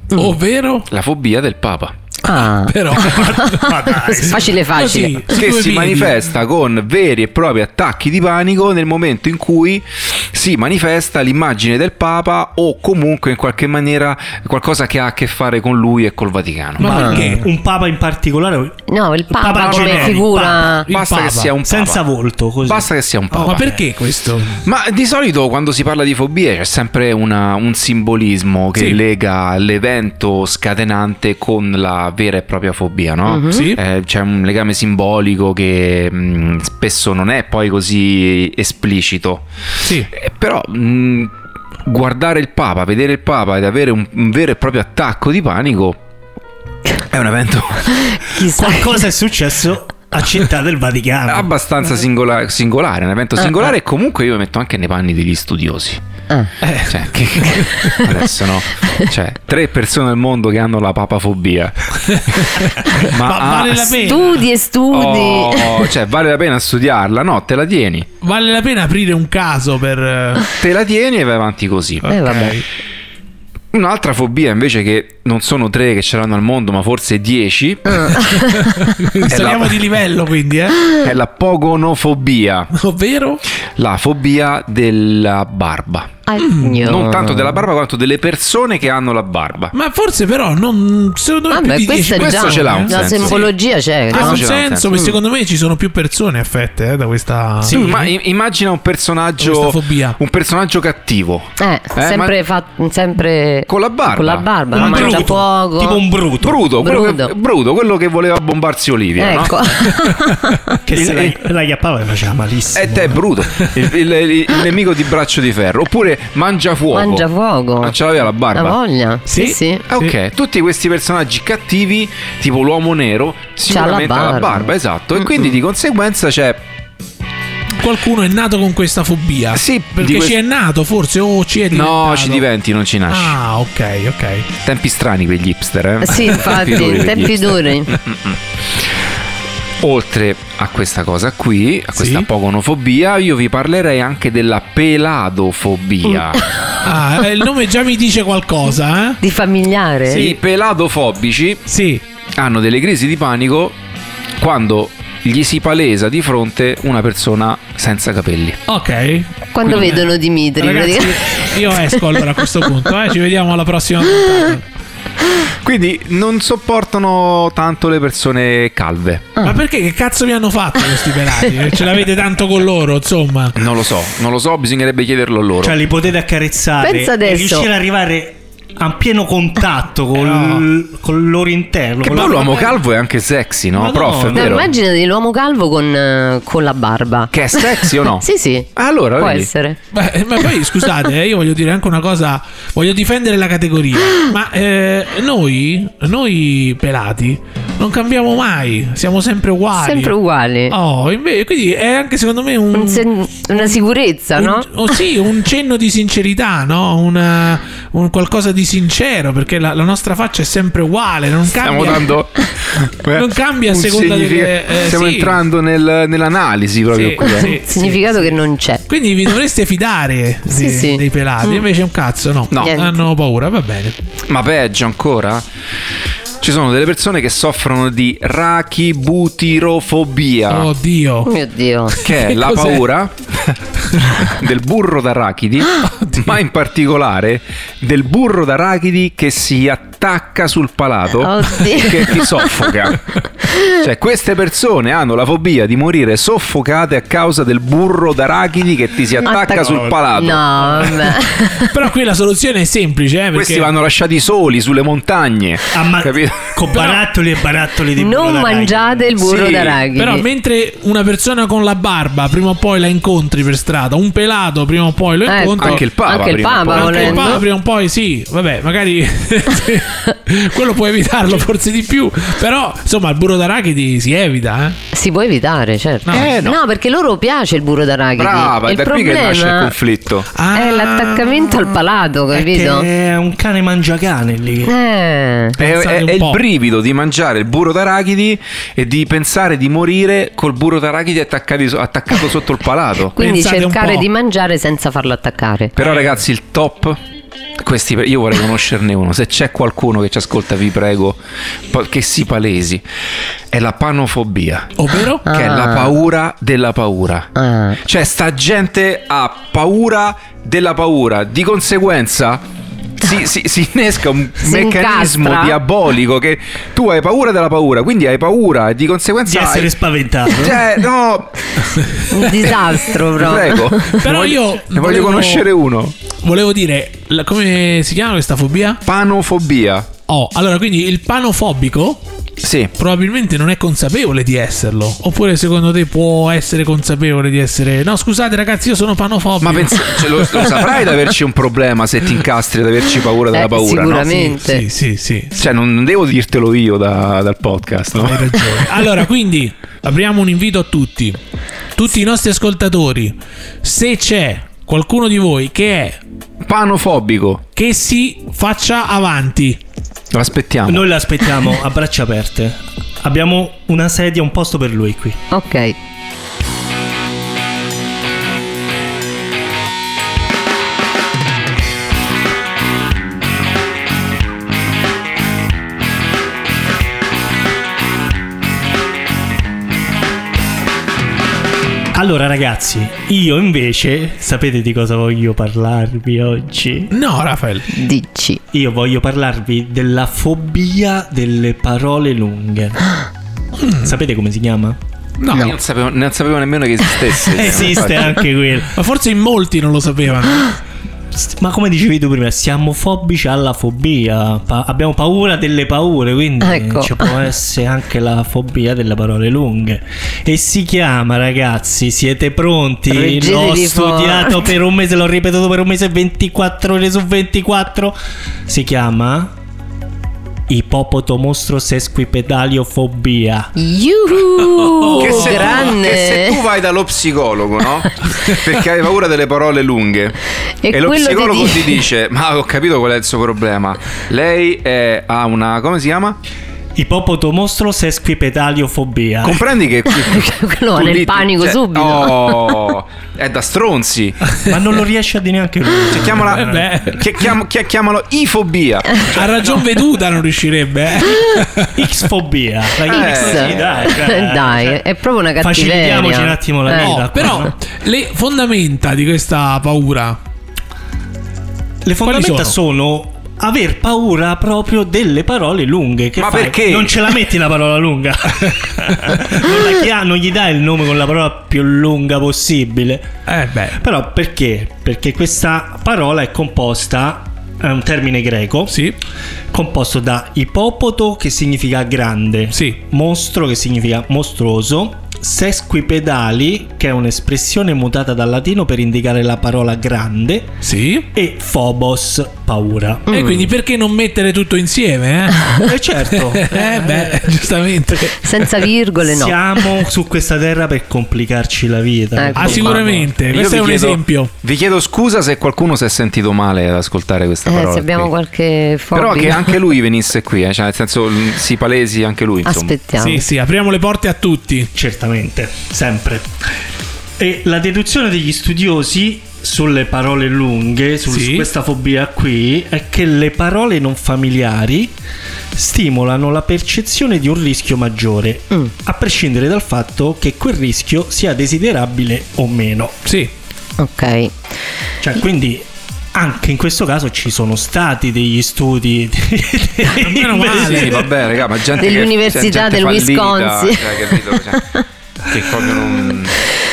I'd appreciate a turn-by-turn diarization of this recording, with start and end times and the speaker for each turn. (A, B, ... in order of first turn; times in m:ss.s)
0:00.1-0:00.9 A
0:00.9-0:01.9 B
0:02.2-0:05.3 C
0:02.3-0:06.2 A
0:02.9-0:04.6 D
0:05.3-0:16.9 B
0:16.8-0:17.5 A
0:16.8-0:18.8 D
0:16.8-0:17.2 C
0:18.9-0:20.9 C
0:19.3-0:20.8 D
0:19.6-0:20.2 B
0:20.8-0:21.5 A
0:20.9-0:22.0 B
0:21.6-0:23.8 D
0:22.6-0:23.8 B
0:23.4-0:24.6 A
0:24.6-0:39.5 B
0:33.3-0:33.7 C
0:33.5-0:33.8 A
0:39.8-0:40.1 A
0:40.1-0:41.3 B
0:41.8-0:46.0 B
0:47.1-0:48.2 B
0:48.0-0:49.0 C
0:48.4-0:51.5 D
0:51.3-0:56.0 B
0:56.6-0:58.0 A
0:56.8-1:04.2 B
1:02.1-1:04.4 A
1:04.0-1:05.9 C
1:04.9-1:08.1 B
1:08.2-1:10.5 A
1:10.6-1:12.1 B
1:12.0-1:12.6 A
1:12.0-1:12.6 C
1:13.7-1:18.3 B
1:17.9-1:18.9 C
1:18.4-1:21.0 A
1:19.2-1:19.8 B
1:21.0-1:22.7 B
1:22.7-1:23.4 A
1:23.7-1:26.2 B
1:26.3-1:27.6 C
1:26.4-1:26.8 A
1:26.8-1:29.7 B
1:29.7-1:33.5 A
1:31.5-1:35.2 C
1:32.1-1:33.5 B
1:34.1-1:34.9 B
1:34.1-1:38.1 A
1:37.6-1:38.0 D
1:37.7-1:42.4 B
1:39.4-1:40.2 A
1:41.6-1:46.0 C
1:43.7-1:45.3 B
1:44.7-1:46.6 D
1:46.4-1:49.5 B
1:46.8-1:47.3 C
1:49.2-1:50.8 C
1:50.0-1:50.5 A
1:50.8-1:53.3 D
1:50.9-1:51.4 B
1:52.7-1:57.3 B
1:56.9-1:58.0 C
1:57.8-1:58.8 B
1:58.5-1:59.8 C
1:59.3-2:00.1 A
1:59.9-2:06.6 B
2:03.7-2:04.7 C
2:07.8-2:12.4 A
2:09.5-2:10.4 B
2:11.7-2:13.4 B
2:13.1-2:14.5 A
2:14.6-2:18.8 B
2:16.0-2:18.0 C
2:19.8-2:26.4 B
2:22.0-2:22.3 A
2:26.3-2:26.7 C
2:26.8-2:29.2 A
2:29.2-2:30.3 C
2:30.1-2:31.6 B
2:31.7-2:32.0 A
2:32.3-2:33.8 B
2:34.4-2:38.6 B
2:38.7-2:40.0 A
2:39.5-2:42.4 C
2:40.6-2:44.6 A
2:45.5-2:49.3 B
2:49.4-2:53.6 A
2:53.6-2:55.8 B
2:55.6-3:02.8 D
2:56.8-2:57.7 C
3:00.2-3:00.7 A
3:02.0-3:04.7 B
3:03.7-3:04.7 D
3:04.3-3:09.8 C
3:07.3-3:09.5 B
3:09.9-3:20.1 A
3:19.8-3:20.8 C
3:20.7-3:23.8 A
3:22.7-3:24.7 C
3:24.4-3:32.2 A
3:31.6-3:37.5 B
3:33.1-3:35.4 A
3:36.9-3:38.4 A
3:37.2-3:38.8 C
3:38.9-3:44.0 A
3:40.5-3:41.6 C
3:42.6-3:43.0 C
3:44.3-3:45.4 B
3:46.4-3:50.7 B
3:50.5-3:51.3 A
3:51.2-3:52.0 C
3:51.9-3:52.8 A
3:52.0-3:53.6 B
3:54.0-3:54.3 A
3:54.1-4:11.0 B
3:55.8-3:56.3 A
4:01.2-4:02.7 C
4:03.5-4:03.8 C
4:09.2-4:11.7 C
4:11.6-4:13.7 A
4:13.3-4:16.5 B
4:15.7-4:19.1 D
4:16.7-4:17.1 A
4:18.0-4:20.2 C
4:19.2-4:19.8 B
4:19.9-4:25.8 A
4:25.2-4:27.4 C
4:25.6-4:27.4 B
4:26.7-4:34.8 A
4:34.9-4:39.7 C
4:36.0-4:36.3 A
4:36.1-4:36.6 B
4:38.2-4:40.3 B
4:40.3-4:41.5 A
4:40.5-4:42.9 C
4:42.3-4:44.7 D
4:44.6-4:45.6 C
4:45.6-4:46.4 A
4:45.6-4:53.1 B
4:53.1-4:55.7 C
4:53.2-4:54.1 A
4:55.8-4:57.0 B
4:55.8-4:56.2 A
4:57.6-5:02.8 B
5:03.5-5:07.3 B
5:04.8-5:05.2 A
5:05.2-5:06.0 C
5:07.3-5:07.8 C
5:07.8-5:19.7 B
5:14.4-5:15.6 C
5:19.2-5:20.6 D
5:20.3-5:21.5 B
5:22.0-5:22.5 A
5:22.1-5:24.0 C
5:22.5-5:25.9 B
5:23.9-5:25.5 A
5:26.2-5:28.8 A
5:28.8-5:29.9 B
5:30.1-5:32.0 A
5:32.4-5:32.7 B
5:32.8-5:40.8 A
5:39.4-5:44.3 B
5:43.3-5:44.6 C
5:44.0-5:45.3 A
5:45.3-5:48.6 B
5:47.9-5:51.2 A
5:51.8-5:56.0 A
5:56.4-5:57.4 B
5:57.6-5:59.6 A
6:00.1-6:00.9 B
6:00.7-6:05.2 D
6:05.3-6:05.7 C
6:21.9-6:26.9 D
6:26.9-6:27.7 A
6:27.7-6:28.4 C
6:28.5-6:33.0 D
6:33.6-6:34.0 A
6:33.8-6:34.8 D
6:35.2-6:35.5 A
6:35.3-6:38.2 B
6:37.2-6:38.7 D
6:38.7-6:40.6 A
6:41.1-6:58.0 D
6:46.4-6:47.1 C
6:52.9-6:54.5 C
6:58.5-6:59.3 D
7:00.5-7:03.5 D
7:03.6-7:06.4 C
7:04.8-7:05.5 A
7:04.9-7:10.2 B
7:10.6-7:11.8 C
7:10.7-7:16.2 B
7:16.8-7:19.4 D
7:19.2-7:24.2 B
7:19.9-7:22.7 C
7:24.4-7:26.7 D
7:25.9-7:29.1 B
7:26.1-7:27.3 A
7:29.1-7:32.0 A
7:31.7-7:34.8 D
7:32.8-7:33.9 B
7:32.9-7:37.3 C
7:35.4-7:37.5 D
7:36.7-7:40.2 A
7:41.8-7:53.1 D
7:42.0-7:42.6 A
7:46.2-7:47.1 B
7:48.9-7:49.2 A
7:53.3-7:53.8 A
7:53.8-7:58.8 D
7:58.7-7:59.0 A
7:59.5-8:10.6 D
8:02.5-8:02.8 A
8:10.6-8:11.1 A
8:11.1-8:13.1 D
8:13.1-8:13.5 C
8:13.1-8:18.5 A
8:15.6-8:17.4 D
8:18.1-8:19.6 C
8:19.0-8:23.0 D
8:22.2-8:23.1 C
8:22.4-8:24.3 A
8:23.3-8:28.1 B
8:27.4-8:29.5 C
8:28.9-8:32.8 B
8:32.4-8:33.2 C
8:33.0-8:34.7 A
8:34.7-8:36.3 D
8:37.2-8:44.9 D
8:41.1-8:41.5 A
8:45.5-8:53.0 D
8:53.0-8:53.3 A
8:53.8-8:54.4 C
8:55.0-9:01.1 D
8:59.9-9:01.0 A
9:00.6-9:04.6 B
9:01.8-9:04.8 C
9:05.3-9:06.4 B